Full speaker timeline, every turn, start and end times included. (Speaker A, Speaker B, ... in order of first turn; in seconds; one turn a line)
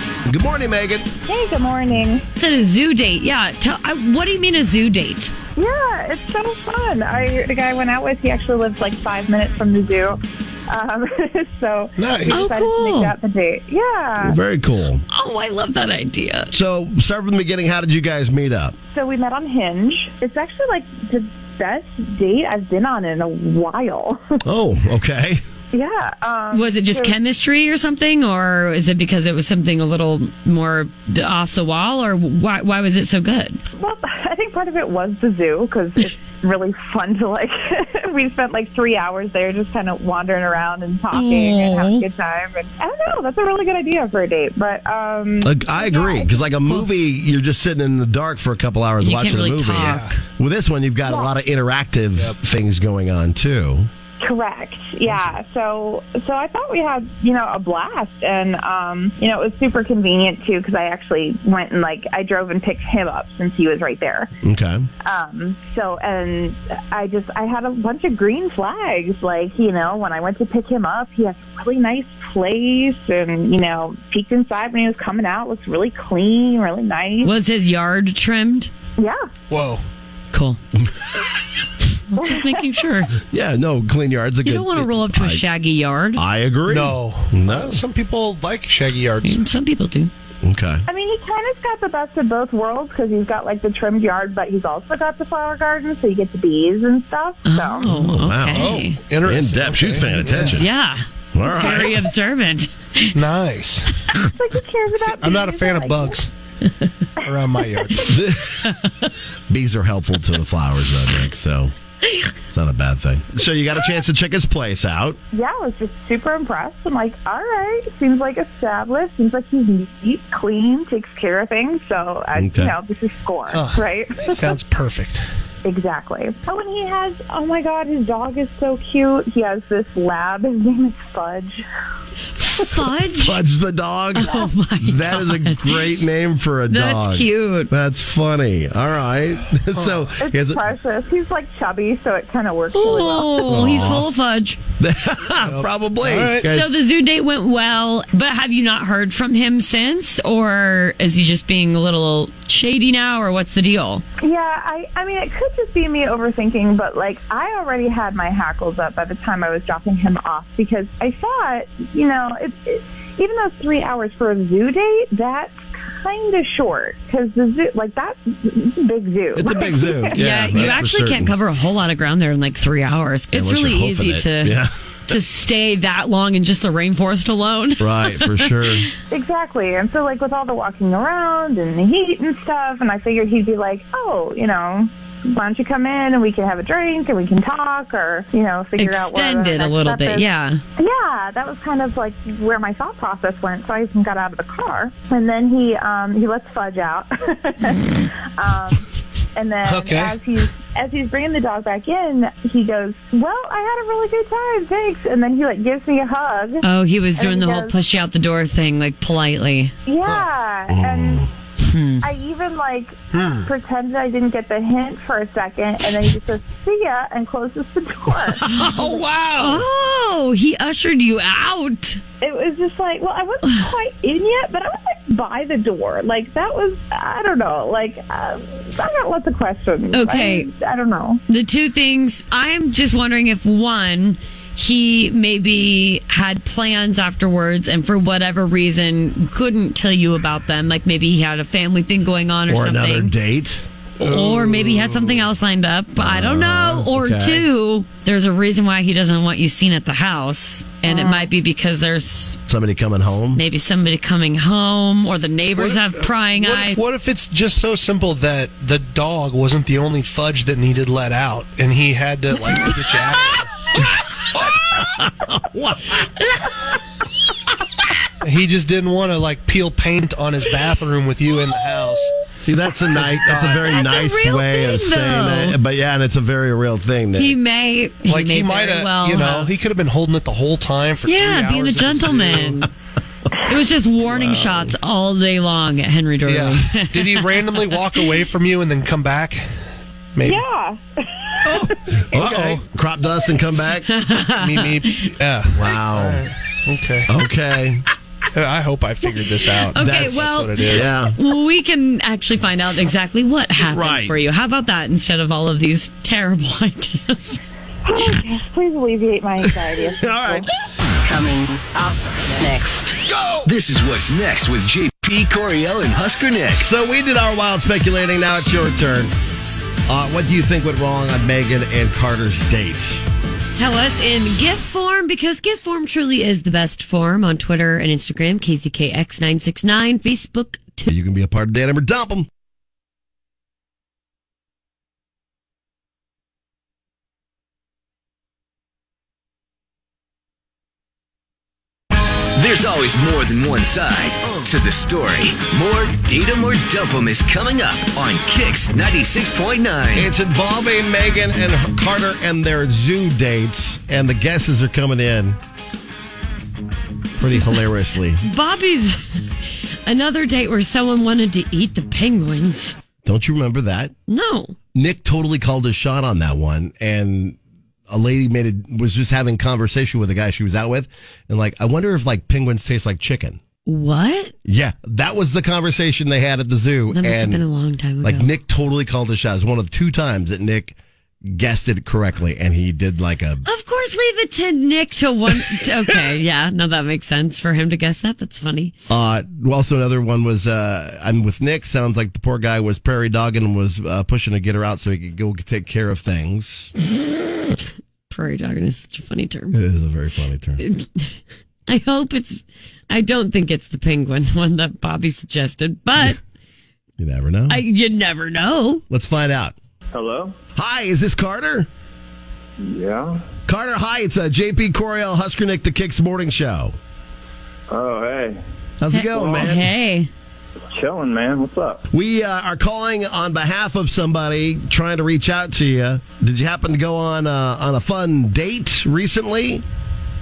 Speaker A: 0.3-1.1
Speaker B: 1.3-2.2
Speaker C: 2.4-5.3
Speaker B: 5.6-14.4
Speaker D: 12.0-12.5
Speaker C: 12.3-13.2
Speaker A: 14.2-15.0
Speaker C: 15.1-16.5
Speaker A: 16.5-18.8
Speaker B: 18.9-24.4
Speaker A: 24.4-25.4
Speaker B: 25.7-27.2
Speaker C: 26.5-33.6
Speaker B: 33.8-46.4
Speaker C: 41.1-42.1
Speaker A: 45.4-53.9
Speaker C: 49.0-50.2
Speaker D: 49.8-50.1
Speaker B: 51.1-51.3
Speaker B: 54.2-64.3
Speaker A: 64.4-64.9
Speaker B: 65.0-77.3
Speaker C: 77.2-78.7
Speaker D: 79.5-79.8
Speaker C: 80.3-80.6
Speaker C: 82.1-83.1
Speaker B: 82.2-82.5
Speaker A: 83.2-85.4
Speaker C: 84.5-86.2
Speaker A: 86.2-87.8
Speaker D: 86.7-89.5
Speaker C: 89.2-90.1
Speaker A: 90.4-90.8
Speaker B: 90.9-97.9
Speaker C: 97.5-99.0
Speaker A: 97.9-100.7
Speaker D: 98.5-100.6
Speaker C: 100.4-103.2
Speaker A: 101.3-102.0
Speaker D: 101.5-101.9
Speaker D: 103.2-104.0
Speaker B: 104.3-106.2
Speaker D: 105.0-106.3
Speaker C: 106.7-107.0
Speaker D: 107.2-108.1
Speaker A: 108.0-108.6
Speaker C: 108.6-109.1
Speaker A: 109.5-111.7
Speaker C: 112.0-112.3
Speaker A: 112.5-115.2
Speaker B: 115.3-124.5
Speaker A: 122.3-122.8
Speaker D: 123.5-125.3
Speaker B: 125.7-131.6
Speaker C: 132.4-133.4
Speaker A: 133.2-140.7
Speaker C: 134.2-136.0
Speaker C: 136.7-137.7
Speaker D: 139.8-140.0
Speaker B: 140.2-143.5
Speaker C: 142.7-144.6
Speaker A: 143.5-144.1
Speaker A: 144.8-146.7
Speaker D: 145.4-146.5
Speaker C: 146.4-154.0
Speaker B: 154.2-170.2
Speaker A: 169.3-171.3
Speaker C: 170.2-178.9
Speaker A: 173.3-174.7
Speaker A: 177.8-178.9
Speaker B: 179.1-206.7
Speaker C: 188.8-190.6
Speaker D: 199.6-200.2
Speaker C: 206.6-209.7
Speaker B: 207.2-207.8
Speaker B: 209.9-211.3
Speaker A: 210.7-211.3
Speaker C: 211.6-212.1
Speaker B: 212.0-219.0
Speaker D: 213.1-213.5
Speaker A: 218.4-219.6
Speaker C: 219.4-222.0
Speaker B: 222.2-231.2
Speaker C: 223.4-223.7
Speaker C: 229.9-230.5
Speaker C: 231.3-243.1
Speaker A: 242.5-243.7
Speaker C: 244.0-252.4
Speaker D: 244.0-245.1
Speaker A: 246.0-247.5
Speaker B: 250.8-251.3
Speaker A: 252.5-253.4
Speaker C: 253.3-256.8
Speaker D: 255.5-263.6
Speaker A: 264.4-266.5
Speaker D: 268.2-272.1
Speaker A: 272.4-277.4
Speaker D: 272.9-273.6
Speaker C: 273.5-275.6
Speaker C: 277.2-279.5
Speaker D: 278.1-282.6
Speaker C: 281.1-282.7
Speaker C: 283.4-288.1
Speaker D: 284.1-284.4
Speaker A: 284.2-284.7
Speaker D: 286.2-289.5
Speaker D: 290.1-290.4
Speaker B: 290.2-292.0
Speaker A: 291.4-293.9
Speaker D: 292.1-292.6
Speaker C: 293.9-295.1
Speaker D: 294.3-297.1
Speaker A: 295.5-296.3
Speaker A: 297.1-297.9
Speaker D: 298.3-300.9
Speaker C: 299.7-307.4
Speaker A: 300.7-301.2
Speaker A: 303.6-304.2
Speaker B: 307.8-310.5
Speaker A: 310.0-310.5
Speaker E: 311.0-313.0
Speaker F: 313.4-316.7
Speaker A: 316.5-319.1
Speaker A: 319.9-323.0
Speaker C: 323.5-330.9
Speaker A: 330.9-332.3
Speaker F: 342.4-350.1
Speaker A: 349.9-355.4
Speaker A: 357.2-358.2
Speaker C: 358.2-359.2
Speaker C: 359.9-362.8
Speaker A: 363.0-363.9
Speaker C: 364.1-364.6
Speaker A: 364.7-367.4
Speaker A: 367.9-373.4
Speaker C: 373.7-374.3
Speaker A: 374.5-377.4
Speaker C: 376.9-378.3
Speaker A: 378.0-383.4
Speaker C: 383.4-388.7
Speaker A: 388.9-396.7
Speaker C: 398.1-399.6
Speaker A: 399.5-400.6
Speaker C: 400.6-401.1
Speaker C: 401.7-406.2
Speaker A: 407.0-407.6
Speaker C: 407.5-408.8
Speaker A: 408.9-409.6
Speaker G: 409.9-410.4
Speaker A: 410.6-411.7
Speaker G: 412.6-413.2
Speaker A: 413.5-416.8
Speaker G: 417.7-418.4
Speaker A: 418.8-419.7
Speaker C: 418.9-420.1
Speaker G: 419.2-419.5
Speaker G: 420.7-421.9
Speaker A: 421.9-429.6